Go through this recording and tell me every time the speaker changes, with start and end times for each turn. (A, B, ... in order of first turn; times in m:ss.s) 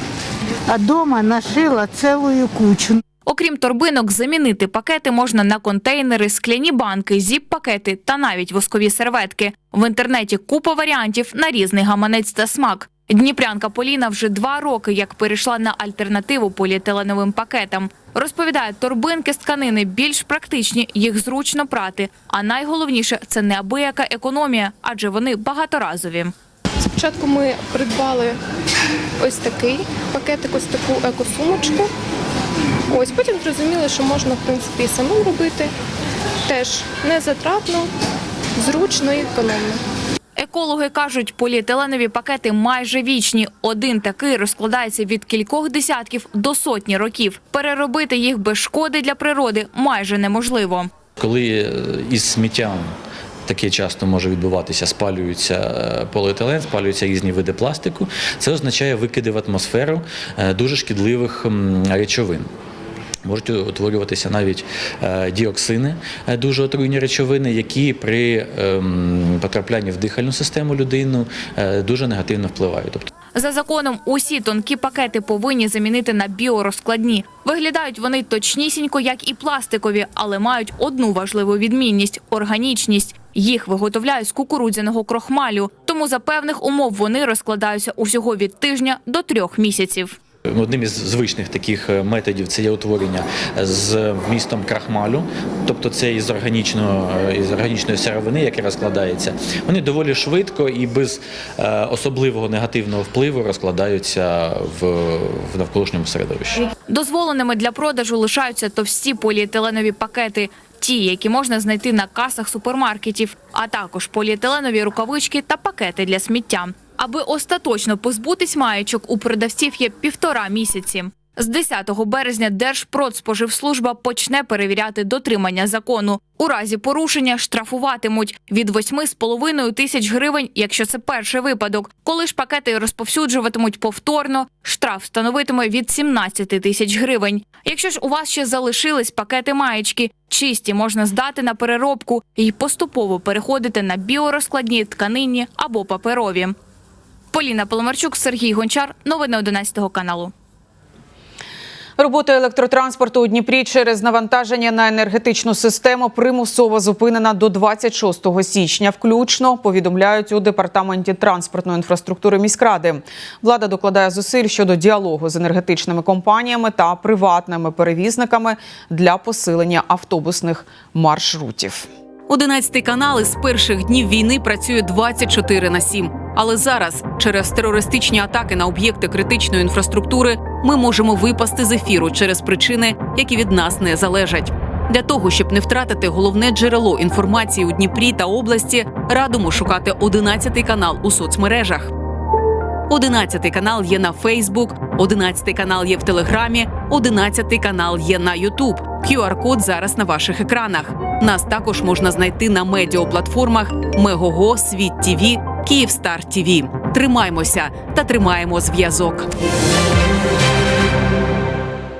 0:00.7-0:03.0 A
0:03.3-0:26.3 B
0:26.8-0:28.4 C
0:29.2-0:31.9 C
0:32.9-0:35.7 C
0:36.5-0:37.9 C
0:38.6-0:39.8 C
0:40.4-0:50.9 B
0:51.2-0:52.9 D
0:53.5-1:02.5 D
1:03.2-1:13.1 D
1:13.3-1:30.2 B
1:30.5-1:46.7 D
1:46.8-2:26.6 B
2:27.3-2:30.3 B
2:32.0-2:51.9 E
2:52.3-3:11.9 F
3:12.9-3:29.3 F